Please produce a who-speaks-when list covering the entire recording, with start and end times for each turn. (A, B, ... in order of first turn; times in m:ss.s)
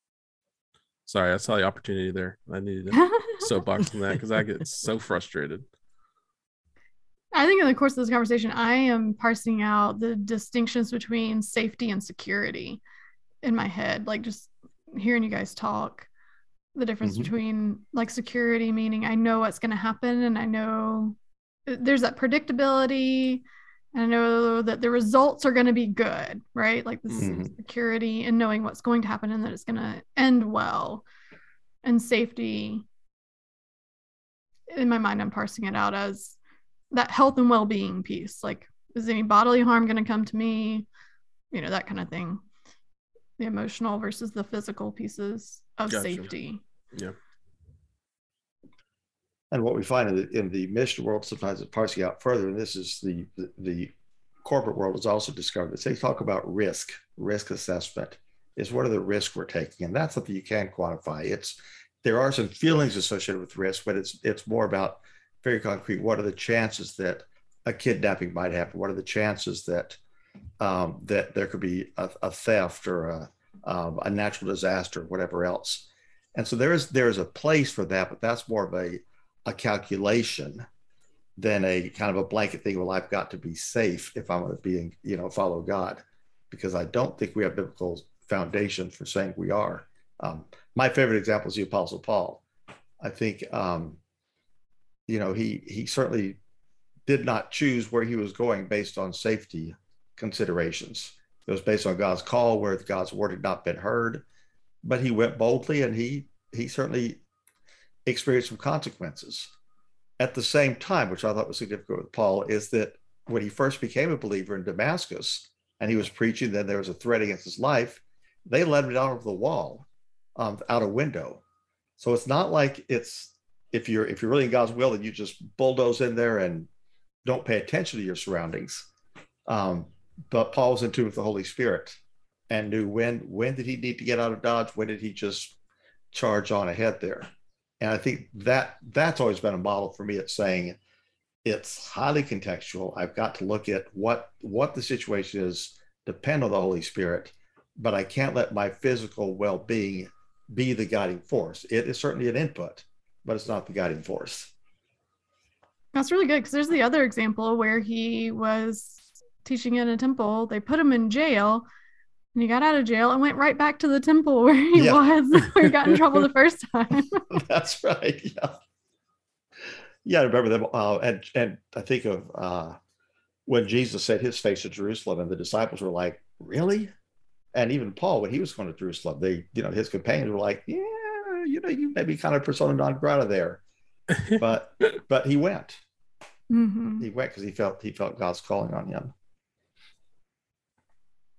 0:01.0-0:05.6 A
0:03.0-0:03.4 B
0:07.3-0:12.8 B
0:13.4-0:16.1 B
0:16.8-0:21.2 B
0:17.0-0:17.3 C
0:21.7-0:31.0 B
0:27.2-0:27.5 C
0:31.8-0:32.8 B
0:34.7-0:36.4 B
0:36.9-0:40.9 B
0:41.5-0:42.4 B
0:43.4-0:46.6 B
0:45.9-0:46.3 A
0:49.5-0:53.9 C
0:54.4-1:10.0 C
1:10.6-1:20.6 C
1:21.4-1:32.4 C
1:33.0-1:34.0 C
1:35.1-1:36.4 C
1:37.1-1:44.2 C
1:44.8-1:47.2 C
1:48.0-1:49.5 C
1:50.2-2:01.4 C
2:02.0-2:06.7 C
2:07.2-2:08.9 C
2:09.5-2:12.0 C
2:12.5-2:15.5 C
2:16.1-2:20.8 C
2:21.4-2:34.5 C
2:35.9-2:41.6 B
2:42.4-2:47.2 B
2:44.7-2:45.0 C
2:47.3-2:48.6 C
2:50.0-2:52.8 C
2:53.5-2:56.9 C
2:57.5-3:03.6 C
3:04.3-3:05.8 C
3:06.5-3:07.1 B
3:07.0-3:09.1 C